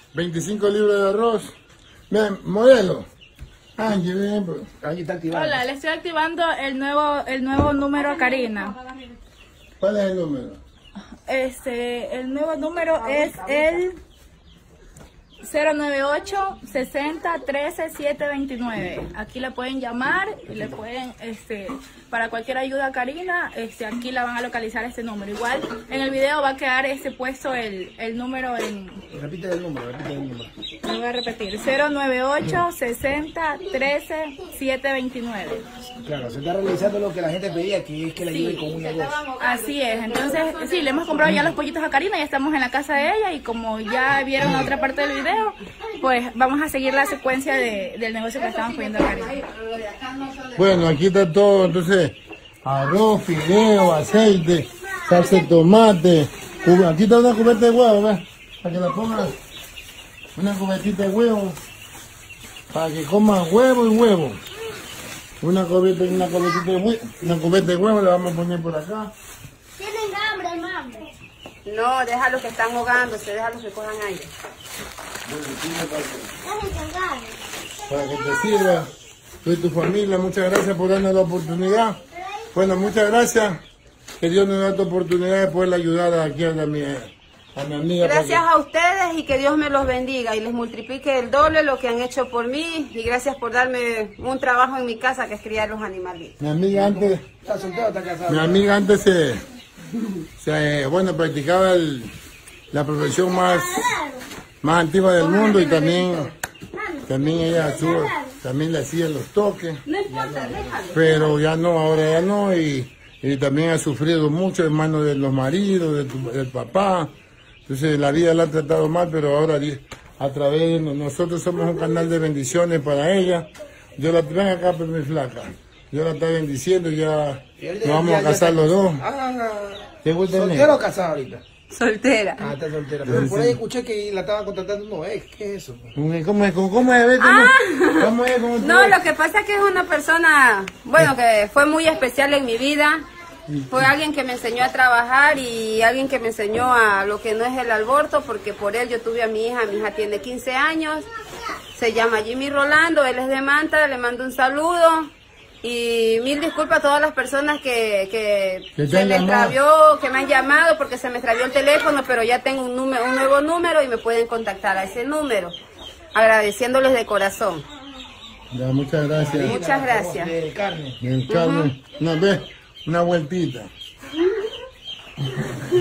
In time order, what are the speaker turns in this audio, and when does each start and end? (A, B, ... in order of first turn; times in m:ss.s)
0:00.1-0:01.5 A
0:02.1-0:03.0 A
0:03.8-0:04.7 A
0:04.8-0:05.6 B
0:05.3-0:08.7 C
0:08.3-0:08.9 D
0:09.8-0:10.6 A
0:11.3-0:14.0 C
0:13.1-0:13.7 D
0:15.4-0:29.0 C
0:29.1-0:30.5 B
0:30.8-0:35.6 C
0:36.0-0:39.2 B
0:38.3-0:41.4 D
0:39.4-0:49.4 C
0:44.4-0:44.7 A
0:48.4-0:50.7 D
0:50.6-0:59.4 A
1:00.4-1:01.6 A
1:02.7-1:04.4 A
1:05.4-1:09.1 A
1:09.8-1:11.1 E
1:11.6-1:14.3 D
1:15.2-1:16.3 A
1:16.4-1:17.3 E
1:17.8-1:18.9 A
1:19.4-1:22.0 A
1:22.5-1:23.6 A
1:24.2-1:28.4 A
1:28.0-1:36.4 D
1:36.4-1:37.2 A
1:36.7-1:38.7 B
1:38.3-1:39.4 A
1:40.4-1:42.1 A
1:42.7-1:44.0 A
1:43.4-1:44.2 E
1:44.6-1:46.3 A
1:45.2-1:46.2 D
1:46.8-1:48.1 E
1:47.0-1:49.8 A
1:49.8-1:51.4 D
1:50.1-1:50.8 B
1:50.9-1:57.1 A
1:57.7-2:09.0 A
2:07.6-2:11.4 B
2:10.0-2:10.7 A
2:11.7-2:12.5 D
2:12.4-2:15.9 B
2:13.0-2:13.6 A
2:16.0-2:19.0 A
2:17.2-2:23.1 D
2:23.5-2:23.9 A
2:23.7-2:31.1 D
2:31.7-2:35.1 D
2:35.6-2:45.6 D
2:38.8-2:39.6 A
2:46.1-2:47.7 D
2:48.5-2:49.6 A
2:49.2-2:51.0 B
2:49.4-2:50.3 D
2:51.0-2:53.7 A
2:51.3-2:51.7 D